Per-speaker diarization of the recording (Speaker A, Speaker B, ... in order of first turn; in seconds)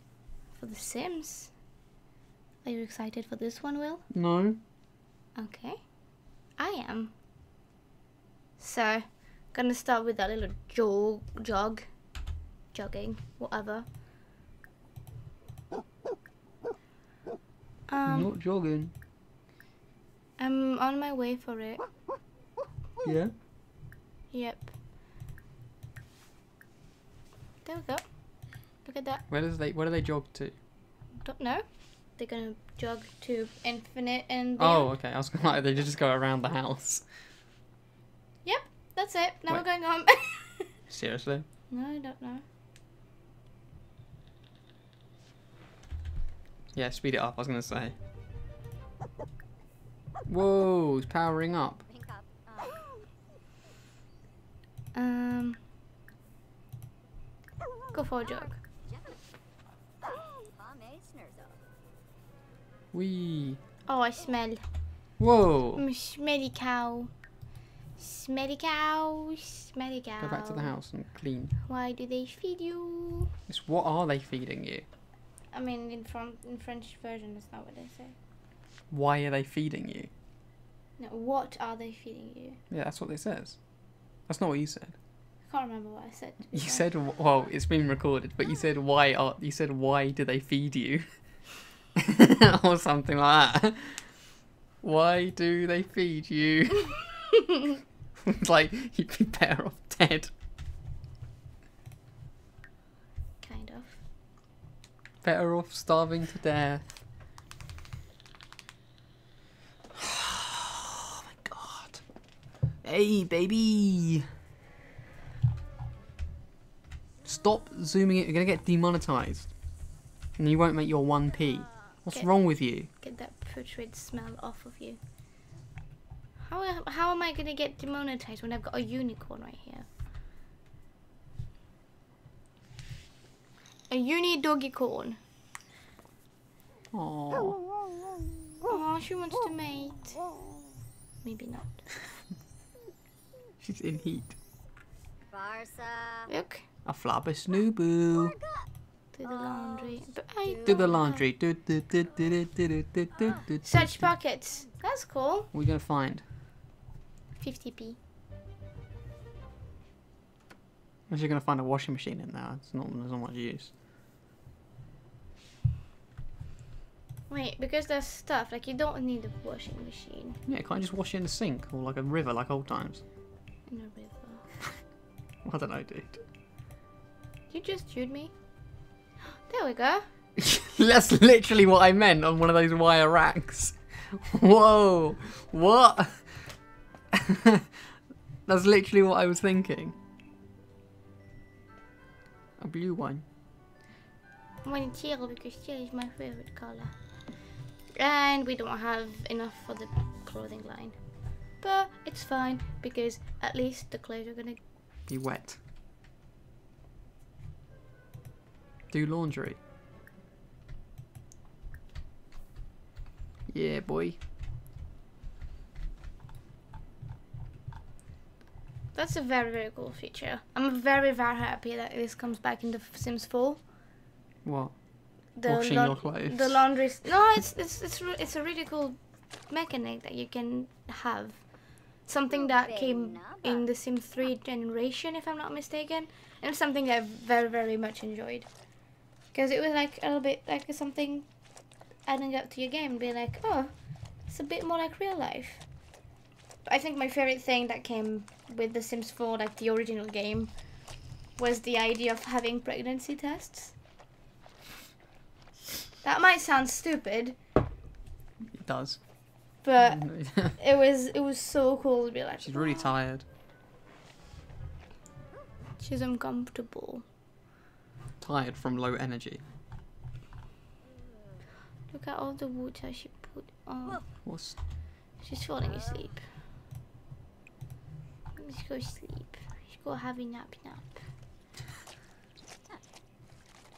Speaker A: 0.5-1.6, 2.6-4.0, 5.3-7.1, 8.6-13.9, 17.9-18.3, 20.4-21.9, 24.3-24.7, 27.6-29.2, 31.2-34.9, 38.5-40.7, 41.7-42.4, 54.9-55.6, 57.9-58.6, 63.9-64.6, 65.8-67.1, 68.0-70.7, 71.6-73.3, 75.5-78.2, 81.0-82.6, 85.5-86.9, 103.4-104.0, 122.1-125.0, 126.4-129.9, 133.9-135.2, 138.7-140.3, 141.2-141.8, 146.3-146.7, 149.1-151.2, 153.6-155.5, 157.4-158.0, 167.3-170.4, 173.7-174.5, 177.5-178.3, 179.3-180.0, 194.6-196.9, 198.0-201.0, 201.6-204.6, 218.9-223.6, 225.3-238.5, 239.3-241.3, 242.1-243.7, 244.2-245.7, 246.7-250.5, 251.3-253.8, 256.0-257.4, 259.6-262.9, 265.8-267.1, 271.9-274.2, 275.2-276.2, 278.4-281.0
Speaker B: 4.1-4.6, 18.0-18.9, 23.0-23.3, 29.3-30.6, 34.6-37.0, 40.9-41.5, 46.7-48.0, 50.3-51.8, 62.9-63.6, 65.2-65.8, 70.2-71.5, 73.5-74.9, 78.9-80.1, 82.7-83.6, 84.2-84.9, 86.5-91.0, 92.0-94.3, 94.8-97.0, 98.2-100.3, 105.2-107.0, 109.9-112.0, 112.8-114.2, 117.2-119.5, 120.4-122.9, 136.9-137.6, 143.6-144.3, 146.8-148.4, 150.7-154.1, 155.5-156.2, 161.1-163.7, 170.5-173.0, 175.4-176.2, 180.4-186.3, 187.1-187.7, 188.5-190.0, 192.6-193.2, 205.1-205.6, 208.9-209.6, 213.5-214.2, 224.4-226.7, 258.5-259.2, 259.8-260.6, 262.4-263.2, 268.2-269.4, 274.2-274.6
Speaker C: 51.9-52.8, 58.4-59.2, 60.0-61.6, 145.3-146.3, 149.2-149.9, 232.6-233.6